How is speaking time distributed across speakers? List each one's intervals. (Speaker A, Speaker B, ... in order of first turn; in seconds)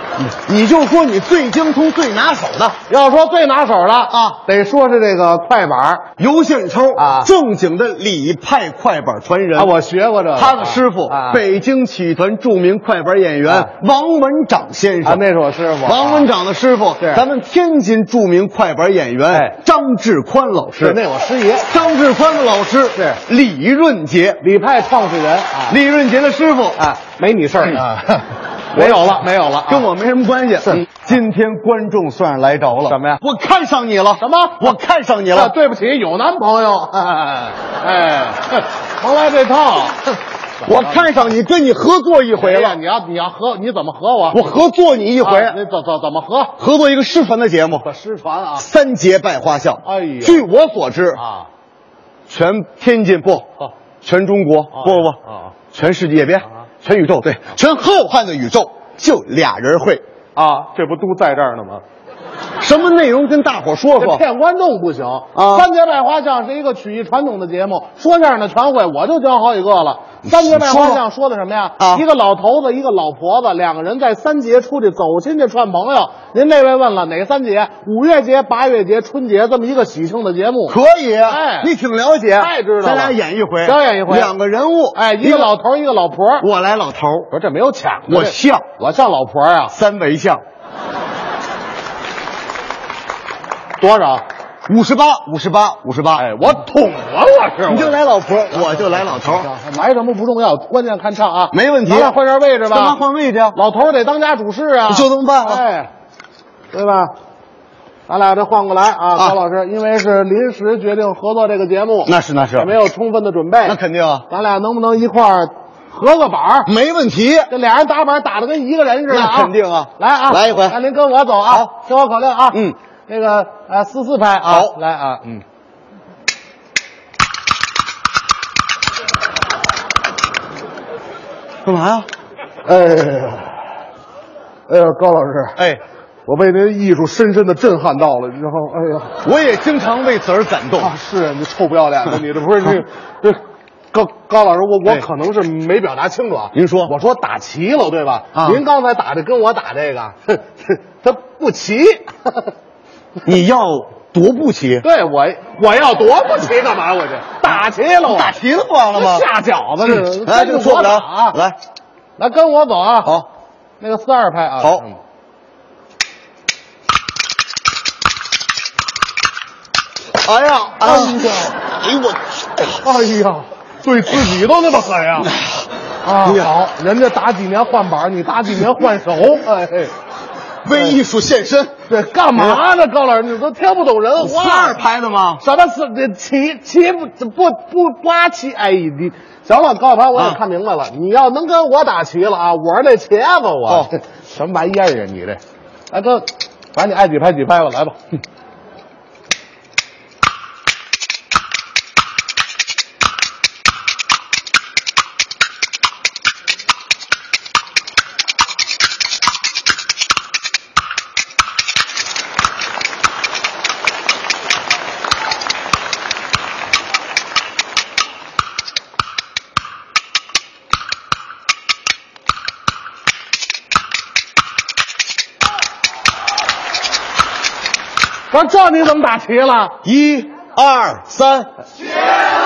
Speaker A: 0.2-2.8, 4.1-4.4, 6.2-9.7, 10.3-15.2, 15.8-21.0, 21.6-24.4, 25.7-26.8, 28.7-35.5, 40.6-42.8, 44.3-45.6, 46.6-47.9, 48.6-51.2, 52.3-53.5, 54.0-55.2, 55.7-60.0, 62.6-64.2, 65.3-65.7, 70.2-71.0, 80.7-85.5, 86.4-87.3, 88.0-88.6, 89.7-90.4, 94.7-96.3, 97.7-99.5, 101.5-103.6, 104.9-105.6, 112.0-112.7, 113.6-114.2, 116.6-117.5, 119.1-120.8, 122.5-122.8, 124.5-124.8, 131.6-132.1, 135.6-135.8, 139.2-140.9, 146.5-146.9, 148.3-148.6, 153.2-154.8, 157.4-159.3, 159.8-161.6, 170.2-172.9, 175.2-175.6, 176.2-176.5, 180.6-181.8, 182.3-182.6, 184.2-185.4, 190.1-190.4, 229.8-231.5
Speaker B: 2.9-6.1, 7.0-7.3, 9.6-11.4, 13.4-13.7, 15.0-16.3, 17.0-17.2, 19.3-19.6, 20.8-21.7, 22.9-23.2, 24.4-25.8, 26.8-29.9, 30.6-31.0, 32.9-33.2, 34.2-34.8, 35.3-41.2, 42.4-44.6, 45.2-46.6, 47.8-48.7, 49.8-50.5, 51.1-51.5, 54.8-55.5, 60.3-61.8, 64.0-81.7, 82.3-84.3, 84.9-86.5, 87.3-89.7, 93.8-94.2, 96.2-98.0, 98.5-103.0, 103.5-105.9, 106.7-107.1, 108.1-116.7, 117.5-125.4, 132.6-133.7, 134.7-135.6, 136.2-139.2, 140.8-143.4, 143.9-152.5, 154.8-158.3, 158.9-161.4, 162.2-163.1, 163.8-165.0, 170.8-171.4, 172.8-175.3, 176.0-179.9, 180.7-181.0, 181.9-184.8, 185.4-198.0, 228.3-229.8